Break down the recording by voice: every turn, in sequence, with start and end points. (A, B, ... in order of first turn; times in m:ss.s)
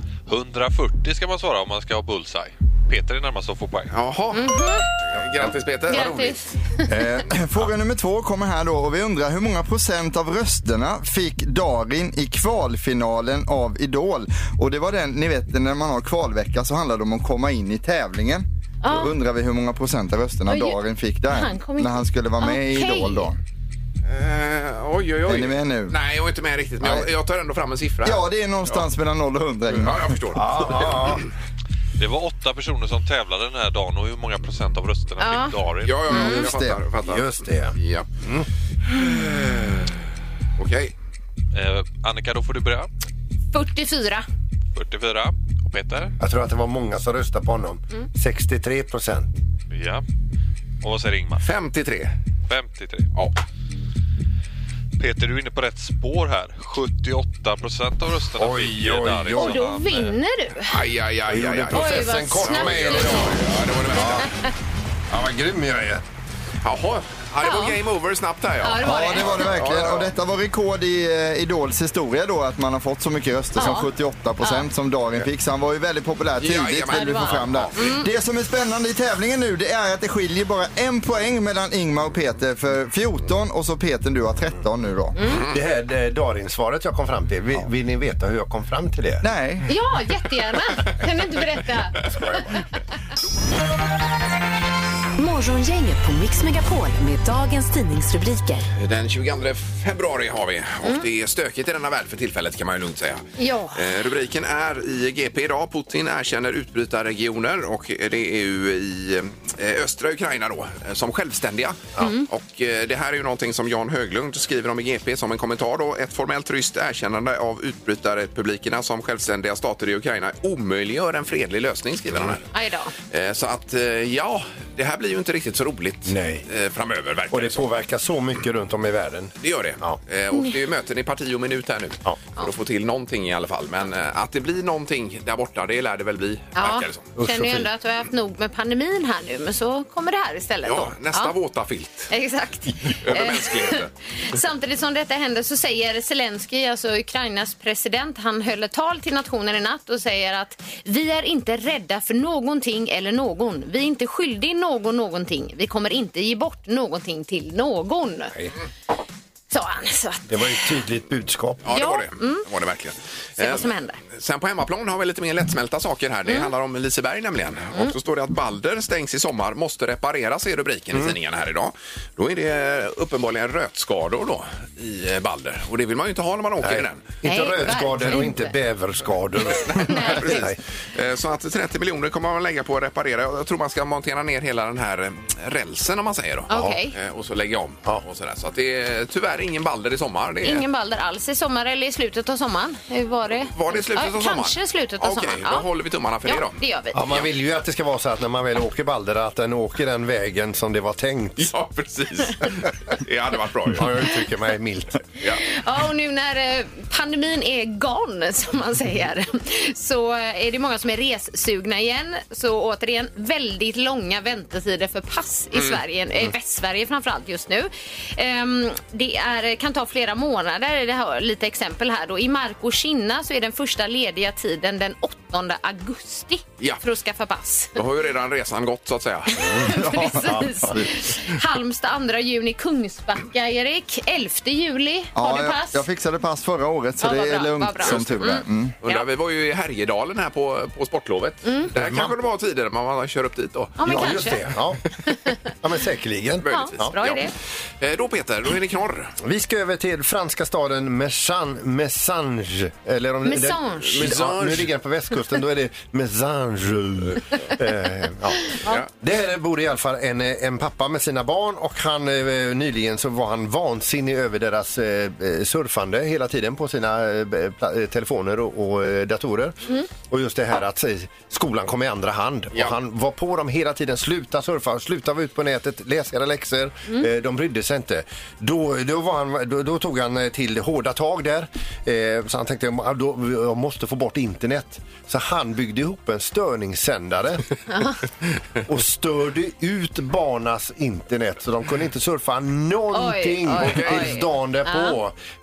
0:00.3-0:04.0 A
0:03.9-0:06.2 B
0:04.3-0:04.9 C
0:05.4-0:06.4 D
0:05.9-0:06.9 C
0:06.9-0:23.4 E
0:18.8-0:19.1 C
0:20.5-0:23.3 C
0:24.1-0:28.8 B
0:25.2-0:26.0 E
0:26.8-0:27.1 E
0:28.0-0:30.2 E
0:29.7-0:31.2 B
0:30.3-0:31.3 D
0:32.0-0:36.2 A
0:35.2-0:35.6 C
0:35.8-0:38.1 B
0:36.1-0:36.8 E
0:36.1-0:36.5 C
0:37.0-0:38.5 D
0:38.9-0:40.0 B
0:40.6-0:40.9 B
0:41.5-0:42.9 A
0:43.5-0:44.2 C
0:44.8-0:46.2 A
0:46.2-0:49.3 D
0:49.7-0:50.0 A
0:50.8-0:51.5 A
0:51.4-0:52.1 B
0:52.5-0:53.1 A
0:55.0-1:00.2 A
0:58.4-0:59.7 D
0:59.3-1:00.8 C
1:00.6-1:04.3 B
1:01.3-1:04.3 D
1:01.7-1:03.4 C
1:04.2-1:04.5 C
1:05.1-1:06.0 D
1:06.6-1:10.1 B
1:07.4-1:07.8 C
1:08.6-1:09.4 C
1:08.8-1:25.2 E
1:13.6-1:13.9 C
1:14.4-1:14.7 C
1:16.4-1:18.0 B
1:16.9-1:18.1 C
1:25.2-1:25.4 C
1:25.3-1:25.6 B
1:25.5-1:29.3 D
1:29.2-1:29.7 E
1:29.7-1:32.6 C
1:35.2-1:38.7 F
1:38.8-2:02.5 B
1:43.4-1:43.9 C
1:52.0-1:52.3 C
2:02.5-2:02.9 C
2:03.1-2:07.7 B
2:06.1-2:06.5 D
2:07.3-2:10.0 D
2:09.4-2:17.1 B
2:16.6-2:21.3 C
2:17.2-2:17.7 D
2:20.7-2:22.1 B
2:22.1-2:38.3 C
2:23.0-2:23.9 B
2:39.5-2:40.8 C
2:40.3-2:41.6 D
2:41.6-2:57.0 B
2:41.7-2:42.5 C
2:43.4-2:44.0 C
2:56.6-3:00.6 D
2:57.2-2:58.6 C
2:59.5-3:10.7 B
2:59.9-3:00.5 C
3:06.5-3:06.9 C
3:06.5-3:06.8 D
3:10.4-3:15.7 C
3:13.5-3:17.3 B
3:16.3-3:17.1 C
3:16.9-3:21.5 D
3:21.4-3:24.1 B
3:23.7-3:25.0 D
3:25.5-3:47.8 C
3:47.8-3:49.4 B
3:49.3-3:55.8 C
3:49.4-3:50.8 D
3:49.7-3:50.9 E
3:55.2-3:58.8 E
3:57.0-3:59.1 C
3:57.8-3:58.3 B
3:58.8-4:04.3 B
4:01.4-4:01.7 C
4:01.8-4:02.2 D
4:03.8-4:04.6 C
4:03.8-4:04.8 D
4:05.1-4:05.5 C
4:05.6-4:07.0 D
4:06.4-4:09.2 B
4:06.4-4:07.3 C
4:09.2-4:47.4 D
4:13.2-4:14.2 C
4:13.8-4:14.7 B
4:18.5-4:18.8 C
4:47.7-4:48.0 C
4:48.6-4:55.2 D
4:52.9-4:55.0 C
4:53.5-4:54.2 B